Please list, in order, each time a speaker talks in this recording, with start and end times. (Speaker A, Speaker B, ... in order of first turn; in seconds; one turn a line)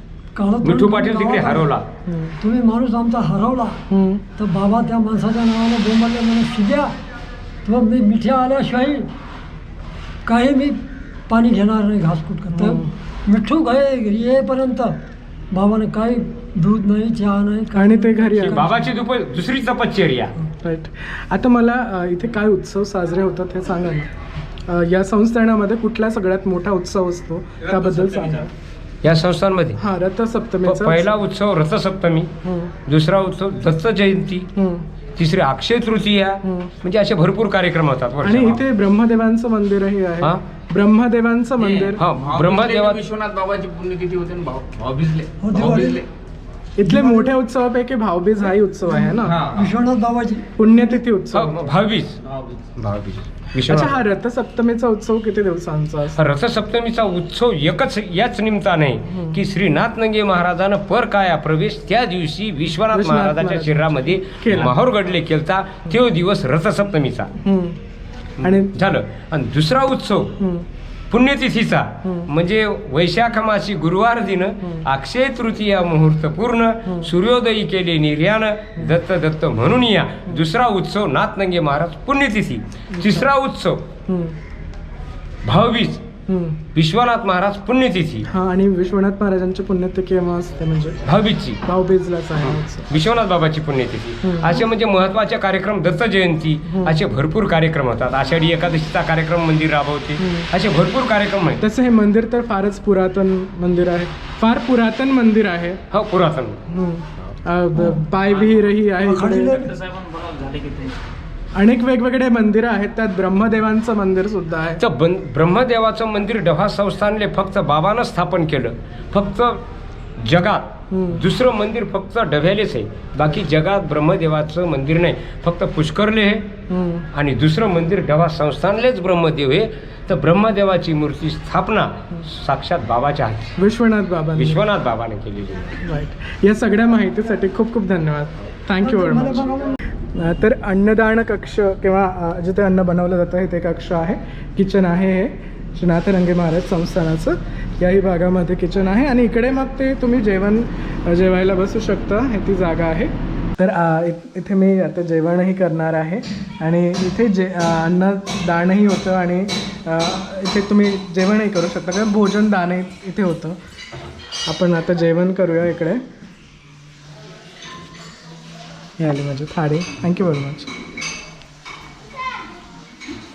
Speaker A: 0.3-1.7
Speaker B: 0.6-1.9
Speaker C: 2.1-2.4
Speaker A: 2.4-3.8
Speaker C: 3.9-4.2
Speaker A: 4.4-6.9
Speaker A: 7.7-9.1
Speaker A: 10.3-15.0
Speaker C: 12.5-12.9
Speaker A: 15.5-18.8
Speaker C: 17.7-18.7
Speaker B: 18.5-20.4
Speaker C: 20.4-24.1
Speaker C: 24.6-28.5
Speaker D: 27.6-28.5
Speaker B: 29.0-29.8
Speaker C: 29.8-31.1
Speaker B: 30.6-32.3
Speaker C: 32.4-32.7
Speaker B: 32.9-34.5
Speaker C: 34.6-34.9
Speaker B: 35.2-38.6
Speaker C: 36.4-36.7
Speaker C: 38.2-42.0
Speaker D: 41.6-46.1
Speaker B: 42.0-43.0
Speaker A: 45.4-46.0
Speaker C: 46.8-49.4
Speaker A: 46.9-47.4
Speaker A: 48.9-50.5
Speaker D: 49.2-49.7
Speaker C: 50.6-51.6
Speaker B: 51.3-52.2
Speaker D: 52.2-52.6
Speaker B: 52.8-54.0
Speaker C: 53.6-56.2
Speaker B: 56.2-67.3
Speaker C: 59.1-59.4
Speaker C: 62.9-64.8
Speaker C: 67.4-67.8
Speaker B: 68.4-70.4
Speaker C: 68.4-68.8
Speaker C: 70.4-70.7
Speaker B: 71.1-83.9
Speaker C: 72.0-72.3
Speaker C: 76.8-77.1
Speaker C: 82.9-83.3
Speaker C: 84.1-84.4
Speaker B: 85.5-86.0
Speaker C: 86.3-86.6
Speaker B: 86.8-88.3
Speaker C: 88.3-91.0
Speaker B: 91.0-91.6
Speaker C: 91.6-92.9
Speaker B: 92.4-101.6
Speaker C: 94.2-94.7
Speaker C: 96.7-97.0
Speaker C: 100.2-100.5
Speaker C: 101.6-105.8
Speaker B: 105.9-106.6
Speaker C: 106.7-109.6
Speaker A: 107.8-108.0
Speaker D: 108.3-108.6
Speaker A: 109.0-109.8
Speaker D: 109.5-111.0
Speaker C: 111.5-114.8
Speaker B: 114.8-119.6
Speaker B: 120.2-126.5
Speaker C: 120.9-121.2
Speaker C: 126.7-127.1
Speaker B: 127.1-133.6
Speaker C: 133.6-134.6
Speaker B: 134.4-135.8
Speaker C: 135.8-139.5
Speaker A: 138.8-139.8
Speaker C: 140.1-163.6
Speaker C: 164.5-166.0
Speaker C: 169.0-170.8